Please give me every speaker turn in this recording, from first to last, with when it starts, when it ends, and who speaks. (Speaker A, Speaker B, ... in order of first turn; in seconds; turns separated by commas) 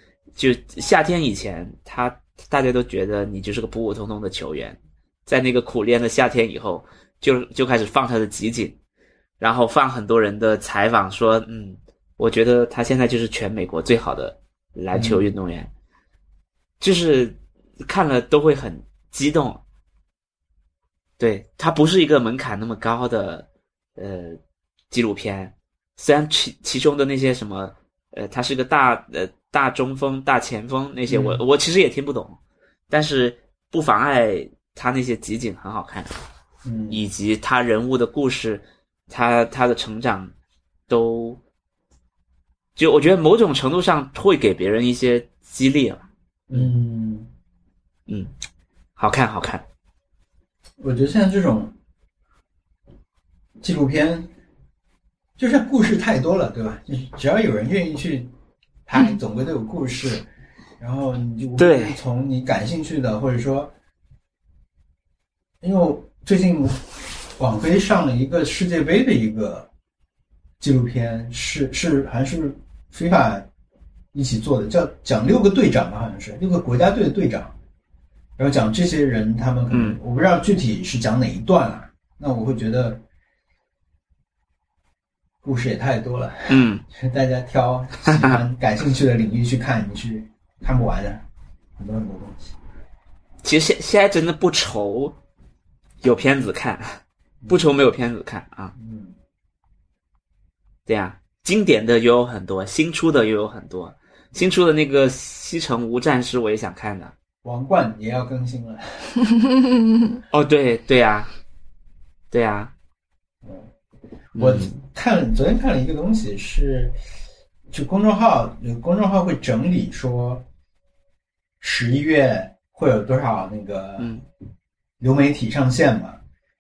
Speaker A: 0.4-8.8, Speaker A: 9.4-15.7, Speaker B: 14.9-15.2, Speaker A: 16.8-19.6, Speaker A: 21.2-24.4, Speaker A: 24.9-32.4, Speaker B: 31.1-31.4, Speaker A: 32.9-36.1, Speaker B: 36.6-37.0, Speaker A: 36.9-40.3, Speaker A: 40.9-41.4, Speaker A: 42.8-46.7, Speaker B: 46.5-47.3, Speaker A: 49.0-49.6, Speaker B: 50.8-51.7, Speaker B: 53.6-54.3, Speaker B: 55.4-58.3, Speaker B: 58.9-60.3, Speaker B: 60.8-63.7, Speaker A: 61.6-62.0, Speaker B: 65.6-66.9, Speaker B: 67.4-69.7, Speaker B: 70.6-73.5, Speaker B: 74.1-77.5, Speaker B: 78.4-83.0, Speaker A: 79.7-80.0, Speaker B: 85.4-91.2, Speaker A: 86.5-86.8, Speaker A: 88.1-88.4, Speaker B: 91.8-92.6, Speaker A: 93.4-95.2, Speaker A: 96.0-98.7, Speaker B: 97.4-97.8, Speaker B: 98.8-99.2, Speaker A: 100.9-107.1, Speaker B: 107.4-109.1, Speaker A: 110.3-111.3, Speaker A: 112.3-112.7, Speaker B: 113.4-113.7, Speaker A: 114.4-114.8, Speaker B: 114.4-117.0, Speaker B: 117.7-120.5, Speaker B: 121.6-124.2, Speaker A: 124.0-124.2, Speaker B: 125.0-126.2